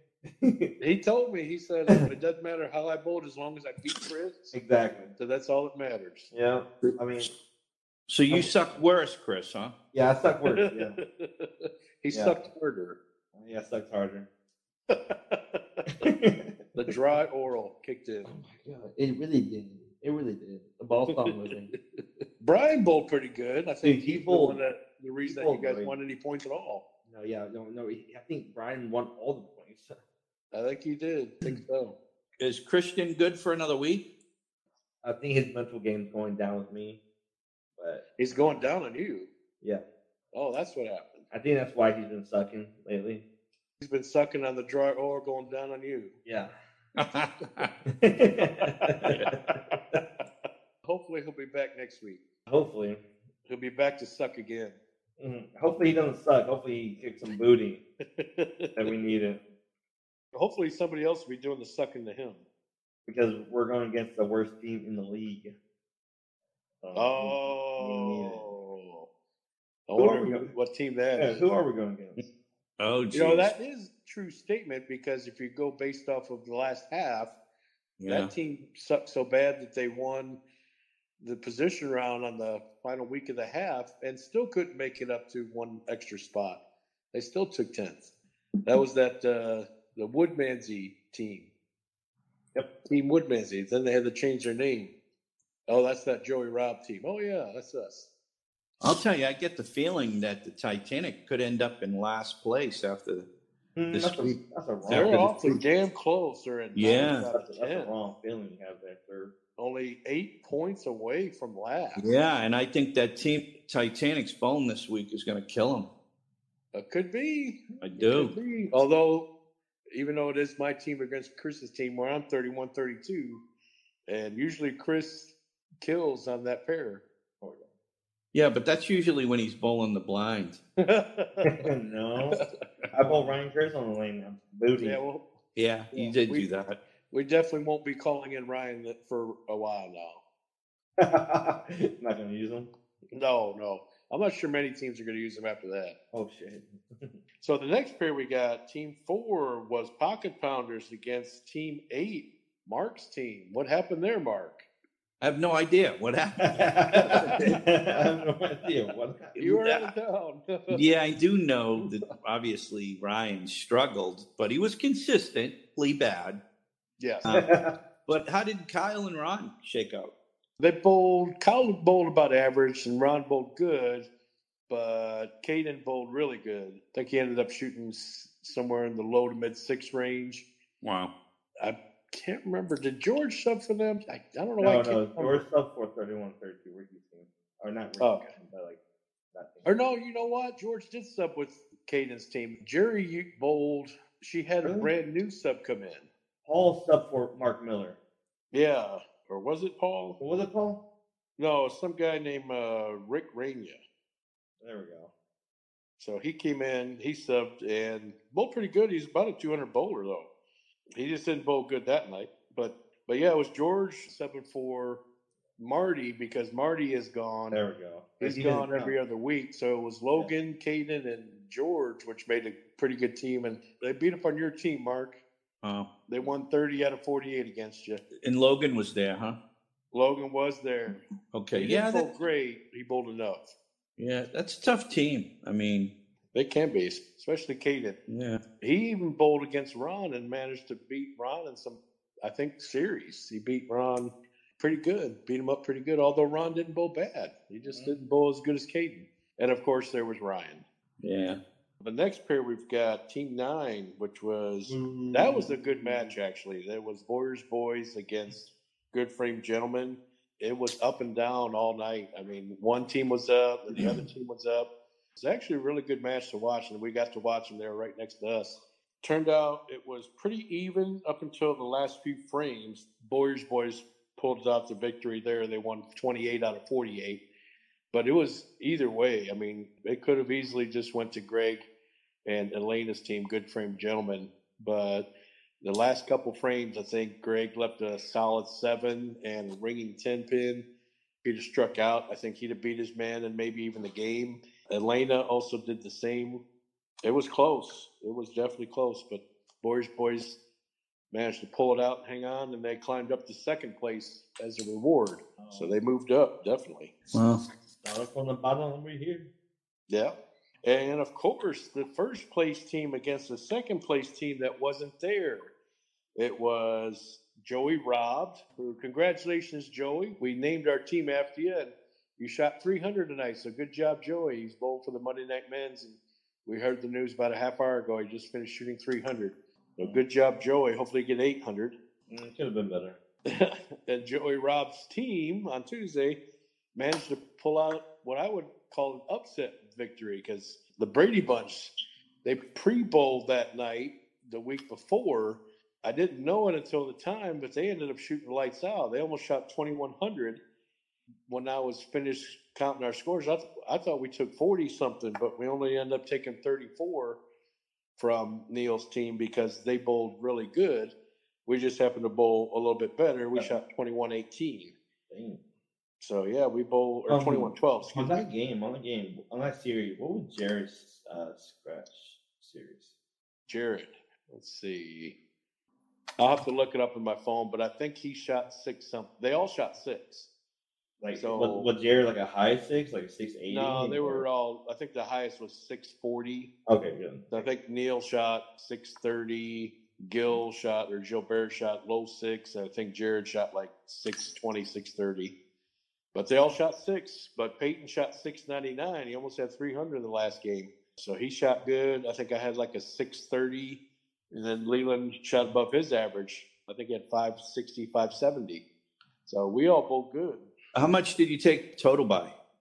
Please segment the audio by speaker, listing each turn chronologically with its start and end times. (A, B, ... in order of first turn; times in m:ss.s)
0:00.4-0:00.7 A
0:00.8-0:04.6 B
0:04.5-0:05.1 A
0:05.2-0:06.3 B
0:06.3-0:07.3 A
0:08.1-0:09.8 C
0:09.9-0:11.0 A
0:10.5-0:13.0 B
0:12.1-0:12.4 A
0:13.4-0:14.3 A
0:14.9-0:16.1 B
0:16.0-0:16.6 A
0:16.8-0:18.3 B
0:18.3-0:21.7 A
0:21.1-0:21.4 B
0:22.4-0:26.8 B
0:23.8-0:24.6 A
0:25.3-0:25.9 A
0:27.1-0:29.9 A
0:30.5-0:32.0 B
0:32.4-0:34.0 C
0:35.0-0:37.0 A
0:37.8-0:38.6 A
0:38.2-0:39.3 B
0:40.3-0:41.3 B
0:41.3-0:43.2 A
0:43.8-0:46.2 B
0:46.2-0:46.5 A
0:47.0-0:47.7 C
0:47.9-0:49.3 A
0:49.0-0:49.8 B
0:50.8-0:52.2 B
0:52.5-0:53.0 A
0:53.5-0:54.8 B
0:55.2-0:57.8 A
0:58.2-0:59.0 B
0:58.8-0:59.4 A
1:00.3-1:02.4 B
1:03.1-1:05.5 A
1:06.8-1:08.4 A
1:07.0-1:09.1 B
1:09.9-1:11.4 B
1:10.0-1:10.5 A
1:11.2-1:12.2 A
1:12.8-1:13.5 C
1:13.1-1:17.4 B
1:18.0-1:18.3 C
1:18.1-1:20.4 B
1:21.2-1:26.6 B
1:27.1-1:28.1 B
1:28.6-1:31.5 B
1:32.9-1:34.9 B
1:35.7-1:38.1 B
1:38.8-1:43.3 C
1:43.8-1:45.3 A
1:43.9-1:45.6 C
1:44.9-1:47.9 B
1:46.8-1:47.3 C
1:46.9-1:49.4 A
1:49.6-1:52.1 B
1:52.0-1:55.9 C
1:56.7-1:59.3 B
1:57.8-1:58.3 C
1:59.9-2:03.4 B
2:04.1-2:07.0 B
2:07.4-2:07.7 A
2:08.3-2:10.6 C
2:10.8-2:11.7 B
2:11.4-2:12.4 A
2:12.9-2:15.0 A
2:13.0-2:13.3 B
2:14.8-2:15.3 B
2:15.6-2:16.8 C
2:15.9-2:16.5 B
2:17.1-2:20.2 B
2:21.0-2:22.7 A
2:23.1-2:26.0 B
2:26.1-2:27.2 A
2:27.4-2:34.6 B
2:35.2-2:37.4 C
2:36.4-2:39.4 A
2:36.9-2:37.5 B
2:39.4-2:39.9 C
2:39.4-2:40.8 B
2:40.7-2:46.4 C
2:47.0-2:47.3 B
2:47.3-2:47.5 C
2:47.3-2:47.7 A
2:48.1-2:50.1 C
2:50.6-2:54.1 B
2:54.7-3:00.5 B
3:00.8-3:01.1 C
3:01.6-3:05.4 B
3:04.6-3:08.8 A
3:08.0-3:08.3 B
3:09.3-3:09.7 A
3:09.6-3:16.1 B
3:14.6-3:14.9 A
3:16.4-3:18.0 A
3:18.5-3:20.2 B
3:20.2-3:20.8 A
3:21.4-3:23.8 B
3:24.6-3:25.1 A
3:26.0-3:30.3 B
3:31.0-3:35.0 B
3:35.6-3:37.6 B
3:37.5-3:39.0 A
3:38.2-3:45.2 B
3:45.6-3:45.9 C
3:46.1-3:48.0 B
3:48.2-3:49.4 C
3:49.9-3:51.0 B
3:51.3-3:52.1 C
3:51.5-3:53.5 B
3:54.0-3:55.9 C
3:56.3-3:58.0 B
3:58.1-3:58.4 C
3:58.6-4:10.6 B
4:07.7-4:08.0 A
4:11.0-4:11.4 C
4:11.8-4:37.2 B
4:14.7-4:16.2 A
4:37.9-4:41.6 B
4:42.3-4:45.1 B
4:45.6-4:50.6 B
4:51.2-4:56.4 B
4:57.0-5:00.4 B
5:01.1-5:07.0 B
5:05.4-5:05.8 A
5:07.1-5:07.4 C
5:07.8-5:09.3 A
5:10.6-5:15.5 B
5:16.2-5:31.8 B
5:32.1-5:33.0 A
5:33.3-5:36.2 B
5:36.8-5:50.4 B
5:51.3-5:57.2 B
5:58.0-6:00.9 B
6:01.5-6:04.8 B
6:05.1-6:05.4 A
6:06.0-6:08.2 B
6:07.1-6:12.9 A
6:13.5-6:15.2 B
6:16.2-6:20.3 B
6:21.0-6:24.2 A
6:21.2-6:21.7 B
6:23.5-6:26.5 B
6:26.7-6:27.5 A
6:27.3-6:35.4 B
6:36.1-6:48.6 B
6:49.3-6:50.5 B
6:50.8-6:52.4 C